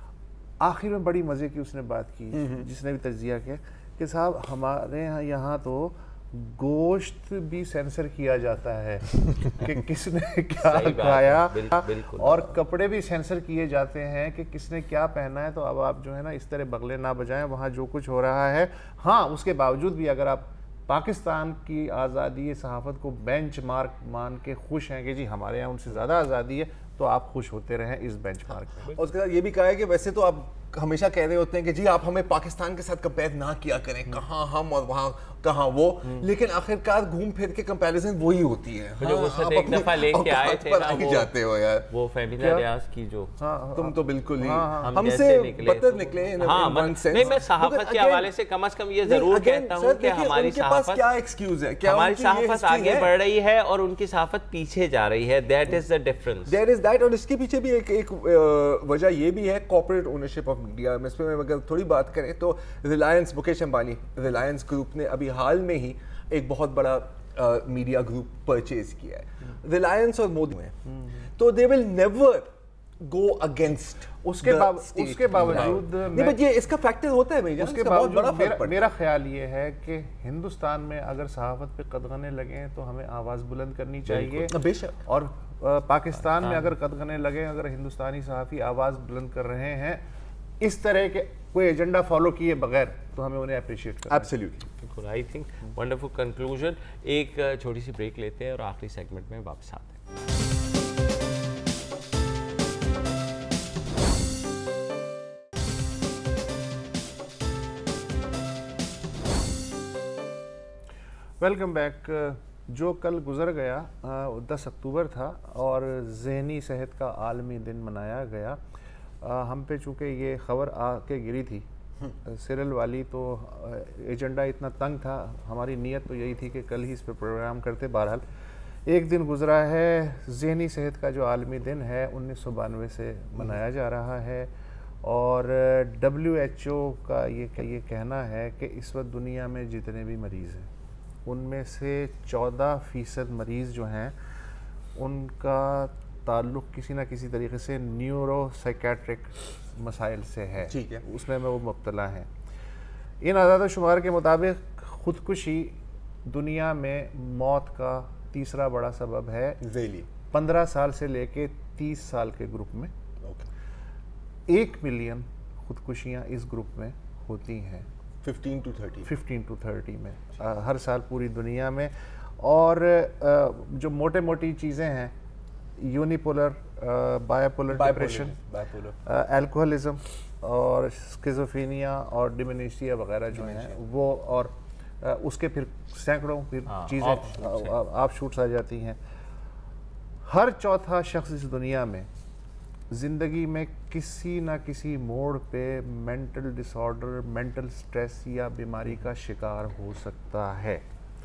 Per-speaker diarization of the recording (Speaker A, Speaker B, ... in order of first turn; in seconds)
Speaker A: 0.6-28.9, 42.4-42.6, 43.4-45.0, 74.2-76.4, 77.6-90.0, 90.6-94.3, 111.4-118.6, 119.2-121.7, 122.2-128.2, 128.9-134.5, 135.0-140.7, 141.2-144.2, 145.0-152.3, 153.2-159.6, 160.3-162.9, 164.5-167.9, 169.1-175.1, 175.8-178.4, 179.0-189.0, 190.2-192.1, 192.9-200.8
Speaker B: 2.4-2.6, 28.9-41.9, 43.8-48.3, 49.0-53.1, 56.5-70.8, 71.4-72.5, 73.0-78.9, 84.1-85.0, 94.1-94.7, 150.7-151.0, 159.6-160.1, 168.2-169.1, 177.7-179.0, 183.3-183.8
Speaker C: 10.6-12.5, 39.0-41.3, 41.9-43.3, 44.8-51.0, 51.9-56.6, 86.4-86.7, 94.8-100.0, 186.7-187.8